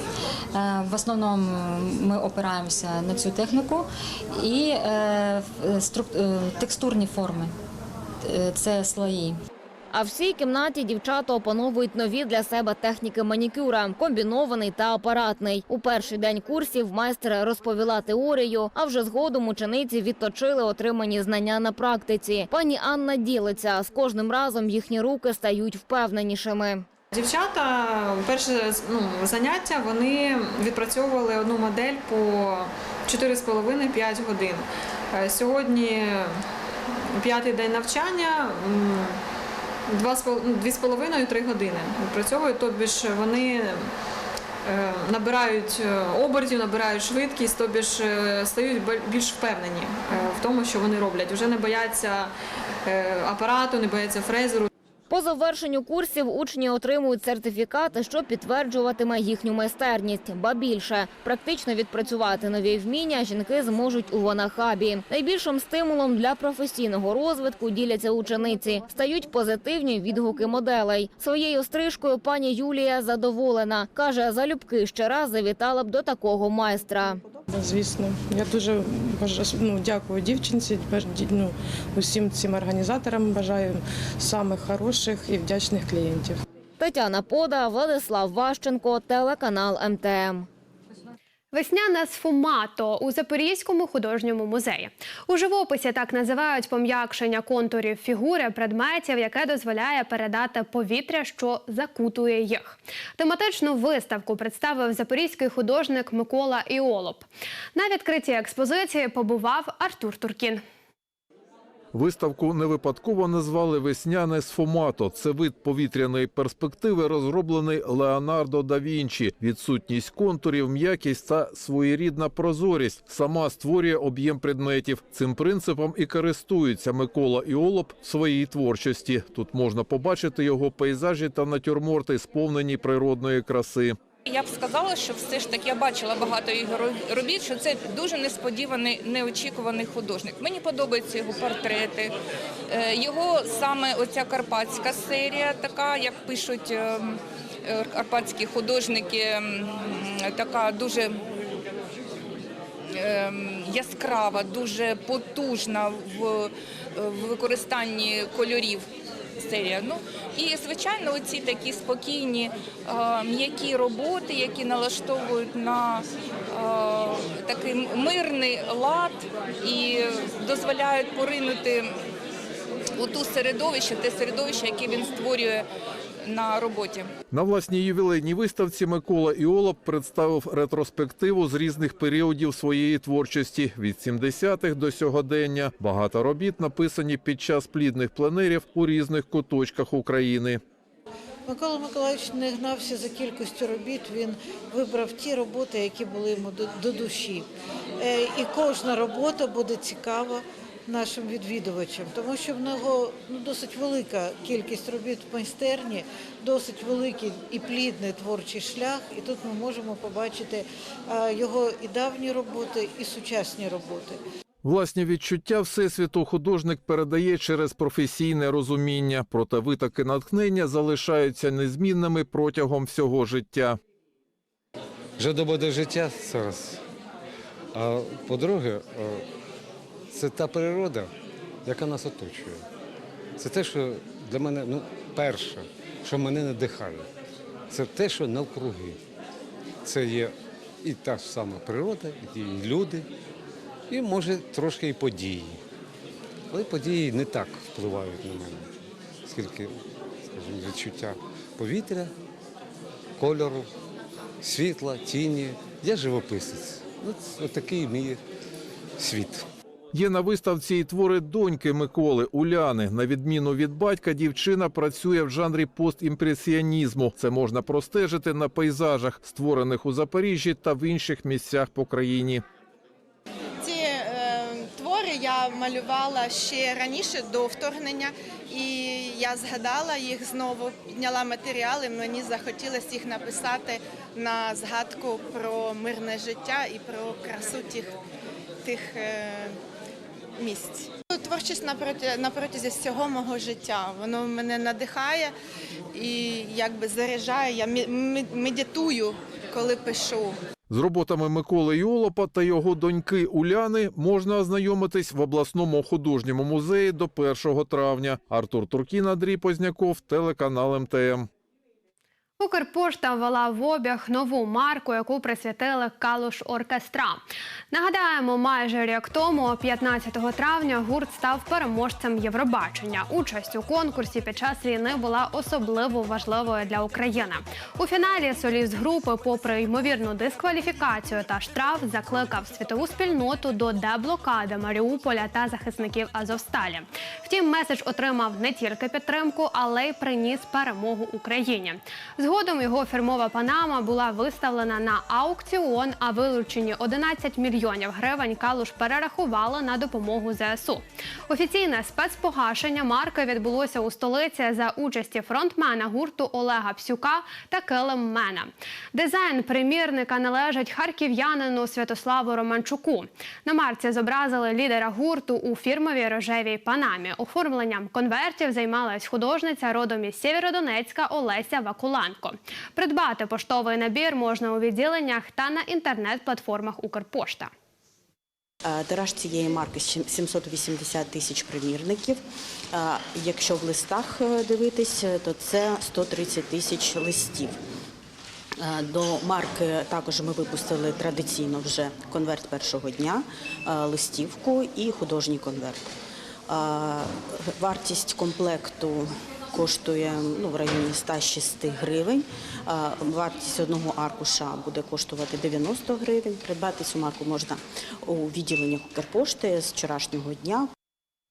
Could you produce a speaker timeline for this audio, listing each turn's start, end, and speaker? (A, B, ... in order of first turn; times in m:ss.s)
0:00.5-0:07.5 A
0:08.2-0:09.4 A
0:09.9-0:26.8 B
0:27.1-0:39.2 C
0:39.9-0:43.9 C
0:44.6-0:52.3 C
0:52.8-0:54.7 C
0:55.1-1:17.2 B
1:17.5-1:26.4 D
1:26.8-1:30.5 B
1:31.5-1:50.6 E
1:51.9-2:14.0 F
2:14.2-2:22.1 G
2:22.7-2:31.2 G
2:32.9-2:38.8 G
2:39.4-2:52.0 G
2:53.0-2:55.6 G
2:56.2-2:57.1 G
2:57.3-3:10.6 F
3:11.5-3:17.4 H
3:18.0-3:34.2 H
3:34.6-3:43.8 F
3:45.2-3:46.8 I
3:47.7-3:49.2 I
3:50.1-3:51.1 I
3:51.6-3:52.6 I
3:53.4-3:57.1 I
3:57.7-3:59.0 I
3:59.8-4:03.0 I
4:03.9-4:05.6 I
4:06.5-4:08.7 I
4:09.2-4:09.7 I
4:10.3-4:12.1 I
4:13.2-4:13.7 I
4:14.4-4:18.2 I
4:19.0-4:19.4 I
4:19.9-4:32.4 F
4:33.6-4:47.9 J
4:48.6-4:49.5 J
4:50.4-4:55.3 J
4:55.9-5:00.4 J
5:00.7-5:11.3 F
5:12.4-6:17.5 E
6:18.6-6:22.2 K
6:22.7-6:27.6 K
6:28.6-6:35.8 K
6:36.5-6:50.7 K